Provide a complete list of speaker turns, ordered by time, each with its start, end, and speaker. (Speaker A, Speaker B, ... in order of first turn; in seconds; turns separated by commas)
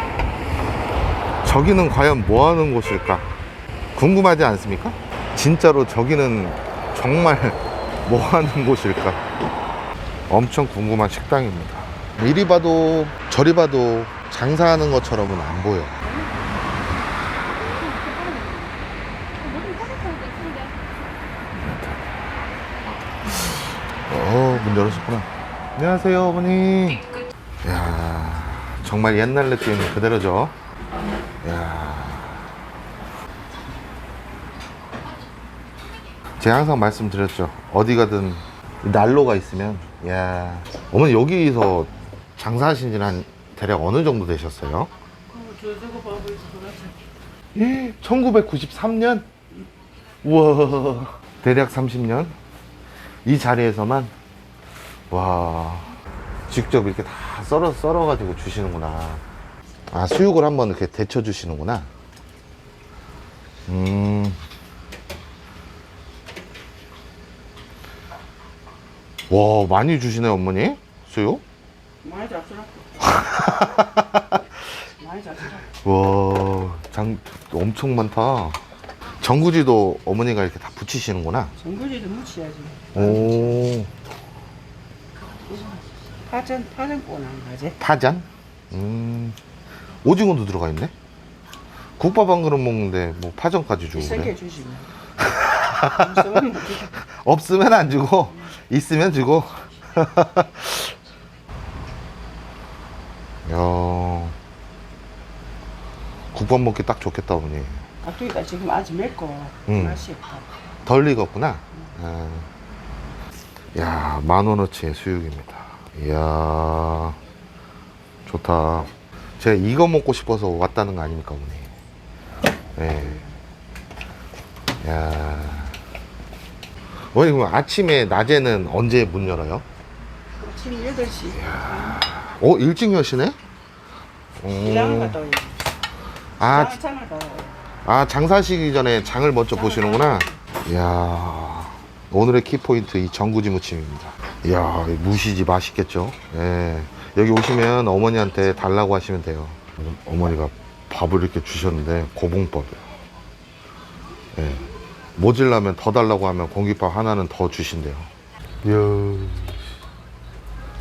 Speaker A: 1.4-3.3, Speaker A: 4.0-9.2, Speaker A: 10.3-16.0, Speaker B: 16.1-16.5, Speaker B: 17.6-18.8, Speaker B: 19.4-20.8, Speaker A: 21.6-22.3, Speaker A: 23.2-27.1, Speaker A: 27.6-30.6, Speaker A: 31.4-32.4, Speaker A: 36.4-44.9, Speaker B: 45.3-46.9, Speaker A: 47.5-49.3, Speaker A: 50.2-52.4, Speaker A: 53.2-54.1, Speaker A: 55.1-55.9, Speaker A: 56.5-59.2, Speaker A: 59.9-61.9, Speaker A: 63.7-64.4, Speaker A: 69.3-71.4, Speaker B: 72.0-73.2, Speaker A: 73.0-74.4, Speaker B: 75.0-75.7, Speaker A: 75.8-78.6, Speaker A: 79.2-81.5, Speaker B: 81.6-83.7, Speaker A: 82.9-83.9, Speaker B: 85.5-87.8, Speaker A: 87.8-89.4, Speaker A: 90.0-90.9, Speaker A: 92.0-94.3, Speaker B: 94.0-94.9, Speaker A: 95.2-100.9, Speaker B: 95.9-96.9, Speaker A: 103.5-104.4, Speaker A: 106.3-107.9, Speaker B: 108.0-110.5, Speaker A: 109.7-110.1, Speaker A: 110.8-112.5, Speaker A: 113.8-117.2, Speaker A: 118.3-121.7, Speaker A: 122.8-123.2, Speaker A: 124.8-125.8, Speaker A: 127.1-129.7, Speaker B: 130.4-132.0, Speaker A: 131.3-133.4, Speaker A: 134.4-135.2, Speaker B: 134.6-135.6, Speaker A: 136.4-136.8, Speaker B: 136.4-137.6, Speaker A: 137.8-152.8, Speaker B: 139.5-140.4, Speaker A: 154.3-158.1, Speaker A: 158.6-159.7